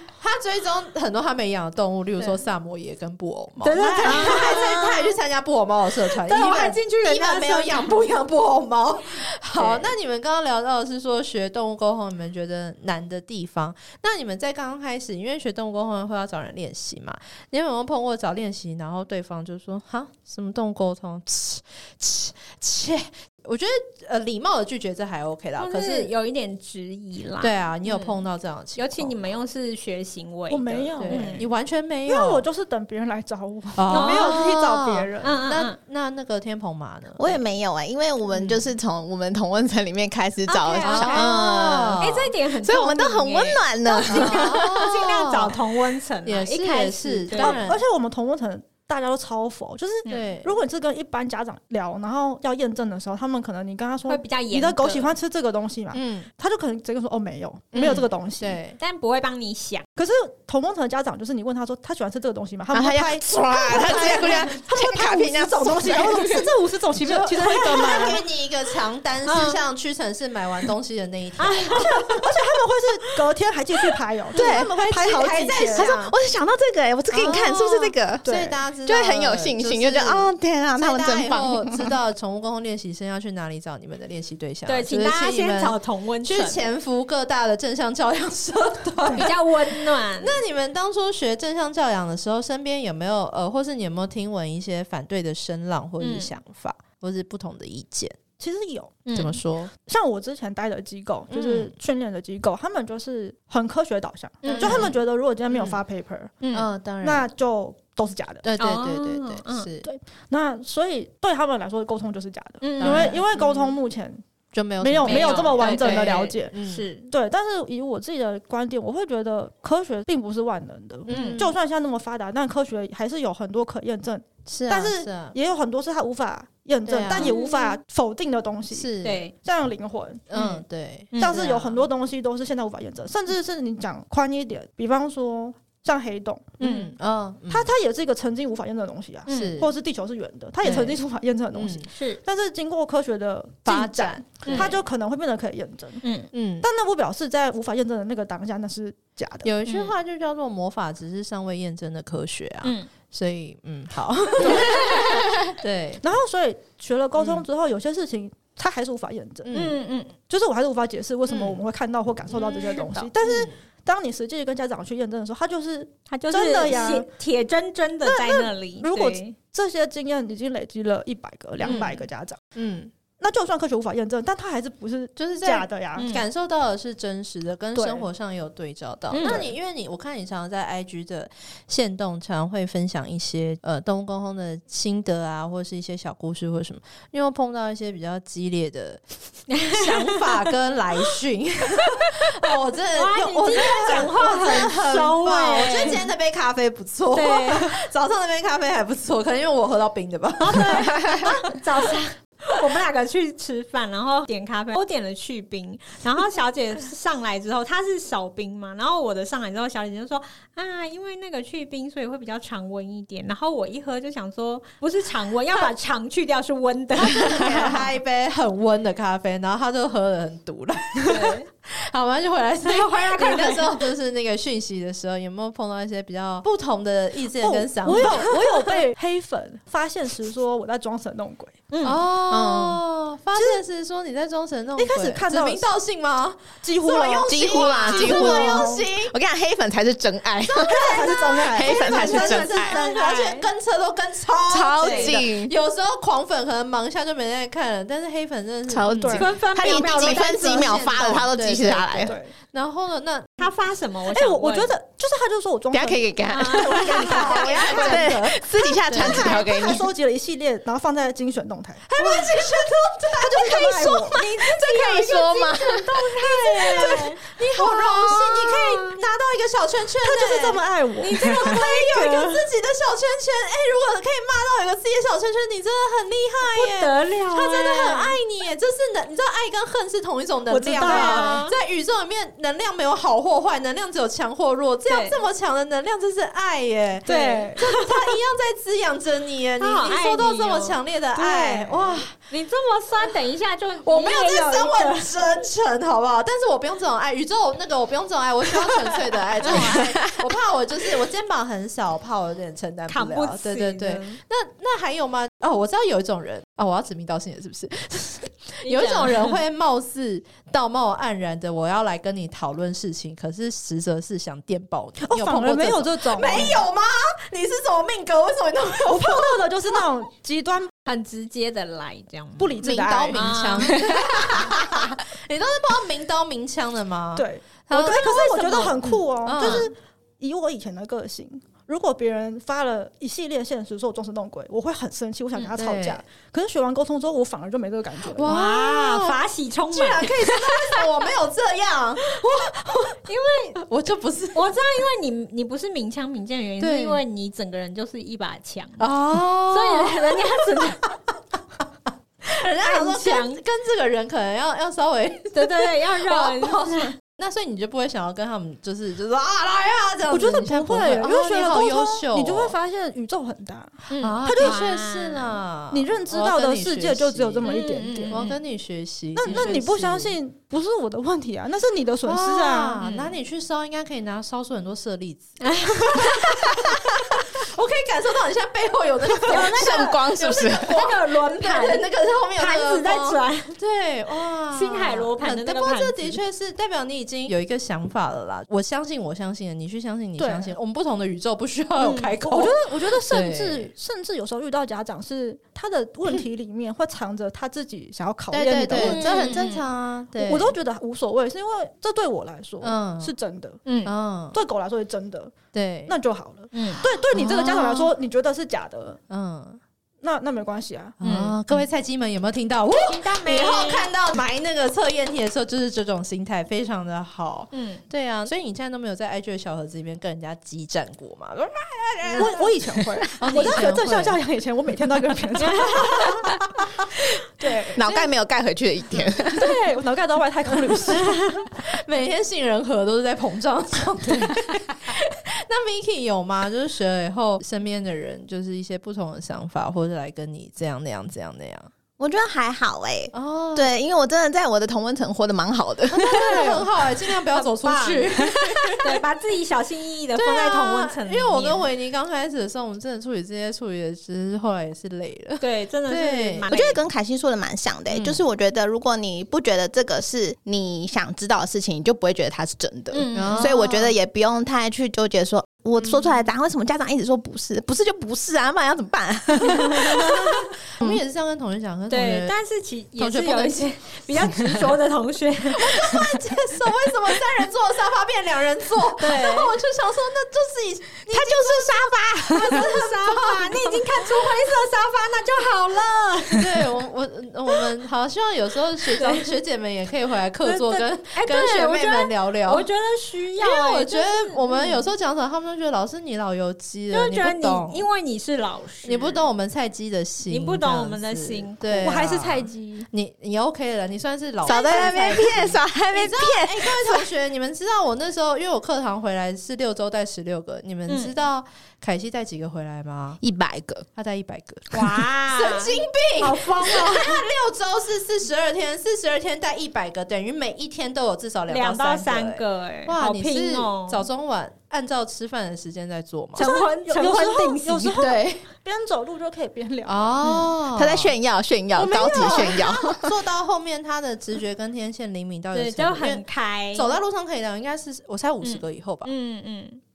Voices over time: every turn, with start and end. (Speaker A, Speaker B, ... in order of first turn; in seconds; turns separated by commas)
Speaker A: 0.2-26.1, Speaker B: 3.6-5.2, Speaker B: 6.0-7.9, Speaker B: 9.6-9.9, Speaker B: 25.6-28.2, Speaker A: 27.4-29.4, Speaker B: 28.8-31.5, Speaker C: 30.5-31.4, Speaker A: 31.0-32.5, Speaker C: 32.1-35.4, Speaker A: 33.8-37.4, Speaker B: 33.9-34.4, Speaker B: 35.2-35.8, Speaker D: 37.2-42.0, Speaker A: 38.3-38.7, Speaker B: 40.5-47.6, Speaker A: 40.8-42.3, Speaker D: 42.6-44.9, Speaker A: 44.1-45.6, Speaker A: 46.2-47.8, Speaker C: 47.3-58.6, Speaker A: 50.1-50.5, Speaker B: 54.0-55.1, Speaker A: 55.9-56.3, Speaker A: 57.7-58.8, Speaker B: 58.8-59.9, Speaker C: 60.0-68.2, Speaker D: 62.7-66.5, Speaker A: 67.0-71.9, Speaker B: 69.2-69.6, Speaker B: 71.4-72.3, Speaker C: 71.8-75.9, Speaker D: 74.3-78.3, Speaker A: 74.3-76.2, Speaker A: 77.1-98.2, Speaker C: 78.2-78.6, Speaker D: 78.9-81.9, Speaker B: 84.7-86.7, Speaker B: 89.1-90.4, Speaker B: 96.0-96.3, Speaker C: 98.4-99.0, Speaker B: 99.1-99.4, Speaker A: 99.1-99.7, Speaker C: 99.8-106.3, Speaker A: 101.3-101.7, Speaker B: 104.4-104.9, Speaker A: 104.5-104.9, Speaker A: 105.5-105.8, Speaker B: 106.4-106.7, Speaker A: 106.5-107.3, Speaker C: 107.0-108.5, Speaker A: 108.4-109.9, Speaker B: 108.6-109.7, Speaker C: 109.8-114.2, Speaker B: 112.6-113.2, Speaker A: 112.8-113.8, Speaker A: 114.5-116.9, Speaker C: 114.8-116.5, Speaker B: 115.0-117.1, Speaker C: 117.1-128.9, Speaker A: 121.1-121.5, Speaker B: 121.1-121.4, Speaker A: 124.5-125.3, Speaker A: 126.9-127.4, Speaker B: 127.1-127.8, Speaker A: 128.7-129.2, Speaker B: 129.0-129.3, Speaker C: 129.4-130.2, Speaker A: 130.3-131.8, Speaker B: 130.3-131.4, Speaker C: 131.2-136.6, Speaker B: 136.6-136.9, Speaker A: 136.6-137.7, Speaker C: 137.5-146.0, Speaker B: 139.3-139.6, Speaker A: 139.3-139.7, Speaker A: 140.6-141.0, Speaker A: 141.5-141.9, Speaker B: 141.9-142.2, Speaker A: 143.7-144.7, Speaker B: 144.5-144.8, Speaker B: 146.0-146.3, Speaker A: 146.3-146.7, Speaker C: 146.6-149.5, Speaker A: 149.4-156.0, Speaker B: 149.7-149.9, Speaker B: 152.6-152.9, Speaker C: 154.4-155.0, Speaker B: 154.5-155.1, Speaker C: 156.0-159.7, Speaker A: 157.2-157.4, Speaker A: 159.4-159.8, Speaker B: 159.5-160.2, Speaker C: 160.3-167.1, Speaker A: 161.3-161.6, Speaker B: 162.3-163.1, Speaker A: 163.2-163.5, Speaker B: 166.1-169.3, Speaker C: 168.0-172.4, Speaker B: 171.6-172.0, Speaker A: 172.6-172.9, Speaker C: 173.2-176.1, Speaker A: 175.2-189.0, Speaker B: 176.0-176.2, Speaker C: 177.8-178.1, Speaker B: 179.1-179.5, Speaker B: 189.5-190.5, Speaker A: 189.7-201.6, Speaker B: 191.9-192.3, Speaker B: 192.9-196.1, Speaker C: 193.8-194.4, Speaker B: 197.1-197.8, Speaker B: 200.4-217.9, Speaker A: 217.0-228.4, Speaker B: 221.0-221.5, Speaker B: 222.6-223.8, Speaker C: 227.4-231.7, Speaker B: 231.7-232.0, Speaker A: 231.8-239.1, Speaker D: 232.3-232.8, Speaker C: 233.3-233.6, Speaker C: 234.8-235.7, Speaker C: 236.6-238.9, Speaker D: 237.3-242.8, Speaker A: 240.5-253.5, Speaker C: 240.6-242.5, Speaker B: 242.5-243.5, Speaker D: 244.5-245.5, Speaker B: 244.8-245.2, Speaker D: 248.7-252.2, Speaker C: 249.0-249.3, Speaker B: 249.1-250.9, Speaker C: 252.0-252.3, Speaker B: 253.4-254.7, Speaker C: 254.1-262.4, Speaker D: 255.7-259.9, Speaker B: 256.3-258.0, Speaker A: 256.9-259.4, Speaker A: 261.9-263.9, Speaker B: 262.0-262.4, Speaker C: 263.1-264.2, Speaker B: 263.4-269.0, Speaker D: 263.6-267.0, Speaker A: 266.6-292.1, Speaker C: 270.0-271.4, Speaker B: 271.0-272.5, Speaker B: 276.5-278.2, Speaker B: 280.5-281.6, Speaker C: 280.8-281.4, Speaker B: 284.9-285.2, Speaker C: 287.1-287.6, Speaker B: 287.1-288.2, Speaker B: 289.6-295.2, Speaker A: 293.8-319.8, Speaker B: 299.4-299.8, Speaker B: 302.9-304.2, Speaker B: 308.6-309.4, Speaker C: 315.0-316.6, Speaker C: 318.9-320.7, Speaker B: 320.9-322.6, Speaker C: 322.4-323.3, Speaker A: 322.6-329.7, Speaker B: 323.1-324.1, Speaker C: 327.2-338.3, Speaker B: 329.4-329.7, Speaker A: 335.5-336.0, Speaker A: 338.1-342.8, Speaker B: 338.3-340.9, Speaker B: 342.1-343.6, Speaker A: 343.6-344.5, Speaker B: 344.3-348.9, Speaker A: 346.6-347.0, Speaker A: 348.8-350.8, Speaker B: 349.5-350.9, Speaker A: 352.3-362.5, Speaker B: 352.4-353.4, Speaker B: 355.4-356.9, Speaker C: 360.1-364.6, Speaker B: 363.9-365.4, Speaker A: 364.0-367.5, Speaker C: 365.7-368.2, Speaker B: 367.4-368.4, Speaker A: 368.1-370.2, Speaker C: 369.1-372.8, Speaker B: 369.3-369.5, Speaker A: 372.1-393.7, Speaker B: 372.8-373.1, Speaker B: 375.4-377.0, Speaker B: 379.2-383.6, Speaker D: 379.3-380.8, Speaker B: 384.5-386.2, Speaker C: 390.2-390.5, Speaker B: 391.8-392.1, Speaker C: 392.2-399.4, Speaker A: 398.3-400.6, Speaker B: 398.7-399.6, Speaker C: 400.1-403.6, Speaker A: 402.6-403.1, Speaker B: 403.7-403.9, Speaker A: 403.8-404.4, Speaker C: 404.3-405.4, Speaker A: 405.5-406.0, Speaker C: 405.9-409.0, Speaker B: 406.5-406.9, Speaker A: 407.1-407.9, Speaker A: 409.1-409.6, Speaker C: 410.0-411.0, Speaker A: 411.0-422.4, Speaker B: 411.0-411.4, Speaker B: 412.8-413.9, Speaker B: 417.5-417.8, Speaker C: 422.1-426.2, Speaker A: 423.2-424.2, Speaker B: 425.4-426.3, Speaker C: 427.4-427.8, Speaker D: 427.8-429.6, Speaker C: 429.3-431.3, Speaker A: 430.7-430.9, Speaker A: 431.6-441.7, Speaker D: 442.0-446.6, Speaker A: 443.1-443.7, Speaker A: 445.9-449.0, Speaker B: 447.3-448.2, Speaker B: 448.8-451.6, Speaker A: 450.2-456.5, Speaker B: 455.4-456.8, Speaker D: 456.5-471.0, Speaker A: 457.9-458.2, Speaker B: 462.9-463.7, Speaker A: 463.1-463.9, Speaker B: 469.5-470.1, Speaker A: 469.9-472.3, Speaker B: 471.9-476.3, Speaker A: 473.0-474.7, Speaker A: 475.5-484.4, Speaker B: 479.0-479.6, Speaker D: 481.1-482.6, Speaker B: 481.8-486.7, Speaker A: 486.3-492.7, Speaker B: 488.9-489.3, Speaker B: 490.4-494.9, Speaker A: 493.4-497.9, Speaker B: 496.9-499.2, Speaker A: 498.8-513.2, Speaker B: 500.2-501.9, Speaker C: 501.8-502.9, Speaker D: 504.4-507.1, Speaker B: 510.9-511.1, Speaker D: 513.2-513.9, Speaker A: 514.0-526.5, Speaker B: 514.7-517.3, Speaker B: 521.5-524.1, Speaker B: 526.4-528.1, Speaker C: 526.4-530.2, Speaker A: 528.0-528.5, Speaker A: 529.9-531.1, Speaker B: 530.2-530.5, Speaker D: 530.7-533.1, Speaker A: 531.8-536.2, Speaker B: 535.5-536.9, Speaker A: 536.7-539.1, Speaker B: 538.4-539.8